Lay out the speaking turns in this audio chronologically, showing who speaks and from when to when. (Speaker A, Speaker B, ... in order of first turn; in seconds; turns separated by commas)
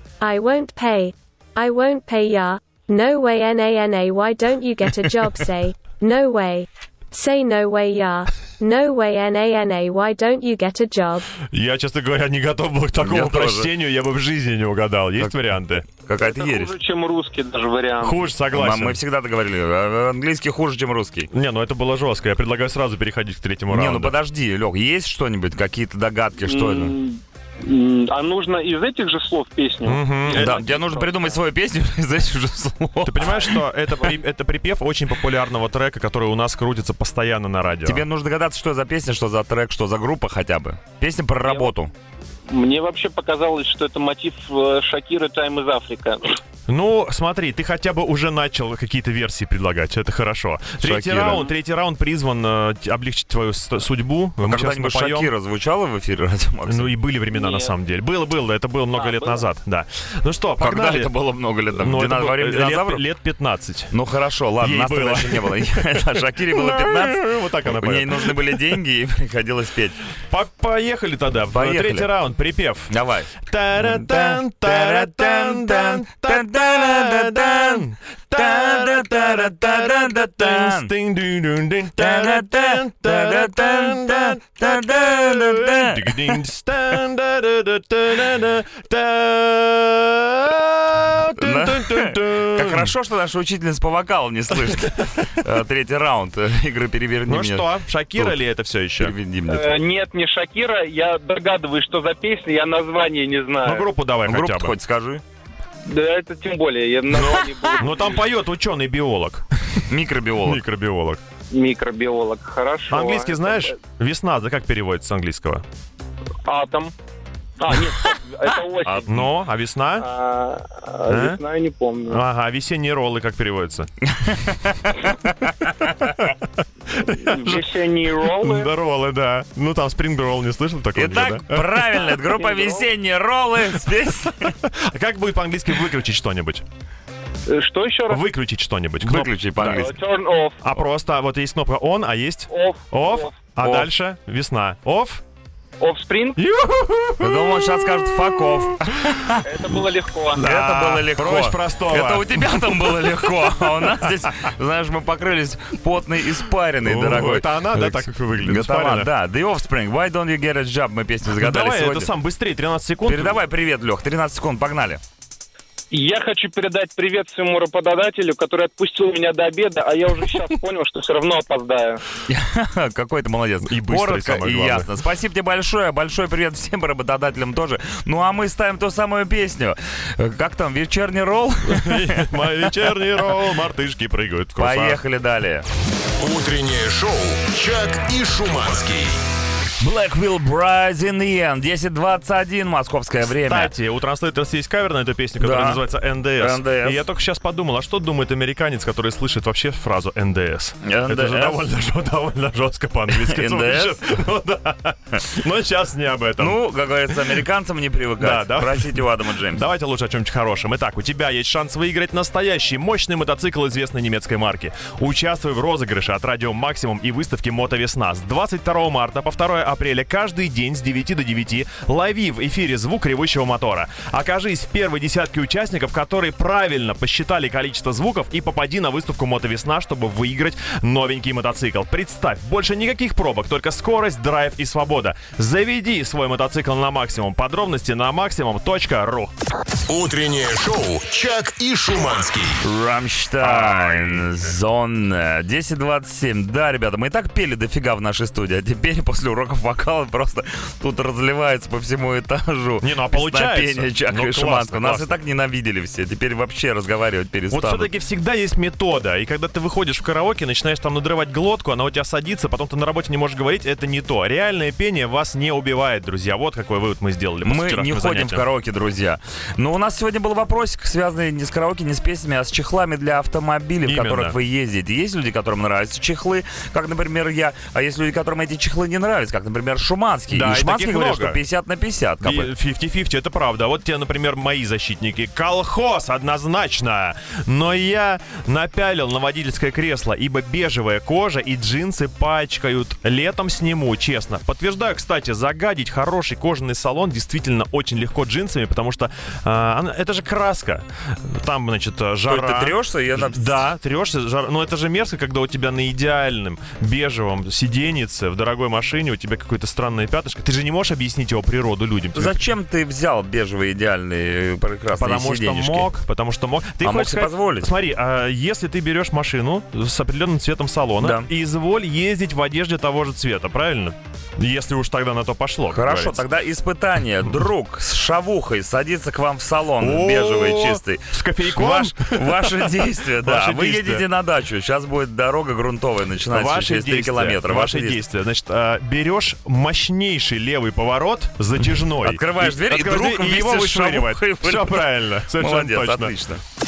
Speaker A: 0.2-11.3, Speaker B: 11.5-15.8, Speaker C: 13.0-13.7, Speaker C: 15.9-16.7, Speaker D: 16.2-18.3, Speaker B: 18.0-19.0, Speaker C: 18.5-21.3, Speaker B: 21.3-24.2, Speaker C: 23.7-26.9, Speaker D: 26.4-31.4, Speaker B: 29.9-30.6, Speaker C: 30.3-33.6, Speaker B: 33.0-38.0, Speaker C: 37.9-41.9, Speaker D: 41.5-41.7, Speaker D: 42.5-46.4, Speaker B: 46.7-55.3, Speaker C: 50.8-51.5, Speaker C: 54.4-56.9, Speaker B: 56.7-61.1, Speaker D: 57.3-57.7, Speaker D: 59.0-59.5, Speaker C: 60.6-63.0, Speaker B: 61.7-63.9, Speaker C: 63.9-70.0, Speaker B: 64.6-68.8, Speaker B: 70.3-93.0, Speaker C: 71.5-72.1, Speaker C: 72.9-80.9, Speaker C: 82.0-86.3, Speaker C: 91.3-98.4, Speaker B: 94.5-95.3, Speaker B: 97.3-99.2, Speaker C: 99.0-99.8, Speaker D: 99.5-103.9, Speaker B: 103.6-104.8, Speaker C: 104.3-105.2, Speaker D: 105.8-108.3, Speaker B: 107.1-109.8, Speaker C: 109.9-110.6, Speaker B: 110.4-111.2, Speaker D: 111.5-113.8, Speaker B: 112.9-115.7, Speaker D: 116.5-116.9, Speaker D: 117.6-119.2, Speaker C: 118.8-119.1, Speaker B: 119.1-120.1, Speaker D: 120.0-122.2, Speaker B: 121.1-121.4, Speaker B: 122.1-123.9, Speaker C: 124.1-125.8, Speaker B: 126.1-131.8, Speaker D: 127.2-128.7, Speaker C: 130.9-134.6, Speaker D: 132.0-132.9, Speaker B: 134.5-136.7, Speaker D: 137.5-138.2, Speaker B: 138.1-139.9, Speaker C: 139.0-139.9, Speaker D: 139.6-140.7, Speaker B: 140.6-145.2, Speaker D: 142.5-143.6, Speaker D: 145.8-146.4, Speaker B: 146.4-149.2, Speaker C: 147.2-149.4, Speaker D: 149.4-150.4, Speaker B: 150.3-154.3, Speaker C: 150.4-162.1, Speaker B: 156.8-159.1, Speaker B: 161.3-163.4, Speaker C: 163.1-165.0, Speaker D: 165.9-172.0, Speaker C: 172.3-182.4, Speaker B: 173.7-174.9, Speaker B: 181.6-185.0, Speaker C: 184.6-185.7, Speaker E: 186.2-189.2, Speaker C: 189.8-193.7, Speaker B: 193.4-207.3, Speaker C: 195.4-197.1, Speaker C: 200.8-201.7, Speaker C: 203.1-204.0, Speaker C: 206.4-209.7, Speaker B: 208.2-239.3, Speaker E: 239.9-242.6, Speaker C: 242.6-257.9, Speaker B: 243.4-244.6, Speaker B: 252.8-255.2, Speaker B: 257.5-268.4, Speaker C: 267.4-282.5, Speaker B: 273.9-274.4, Speaker B: 280.3-281.4, Speaker B: 282.2-312.5, Speaker C: 302.3-303.6, Speaker C: 312.1-315.9, Speaker B: 315.0-326.2, Speaker C: 316.8-317.7, Speaker C: 321.0-321.3, Speaker C: 325.7-338.0, Speaker B: 329.8-334.1, Speaker B: 336.2-346.2, Speaker C: 341.7-346.4